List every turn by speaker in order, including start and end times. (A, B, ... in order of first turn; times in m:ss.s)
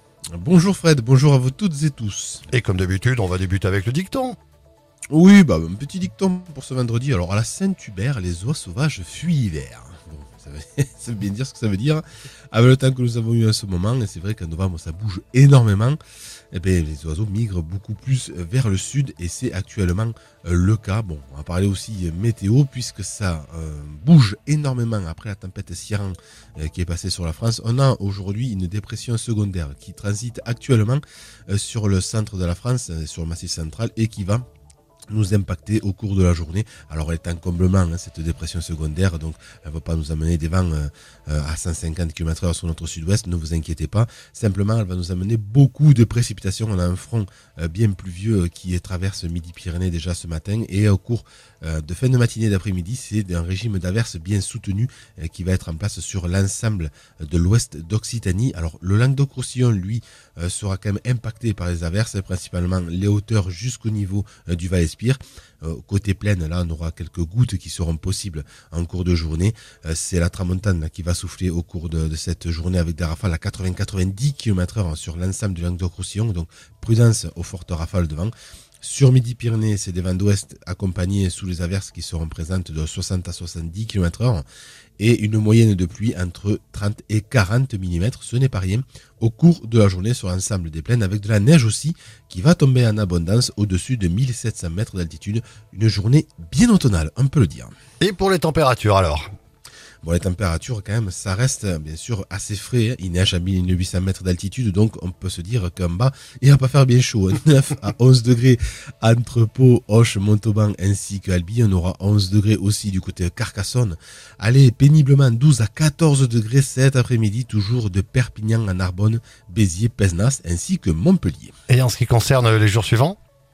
0:00.3-0:02.4 A
0:02.5-0:04.4 B
0:05.1-0:16.0 A
0:16.5-0:34.4 A
0:35.1-1:24.4 A
1:25.0-1:37.7 A
1:38.0-1:39.3 B
1:40.0-2:01.5 A
2:01.7-2:03.2 B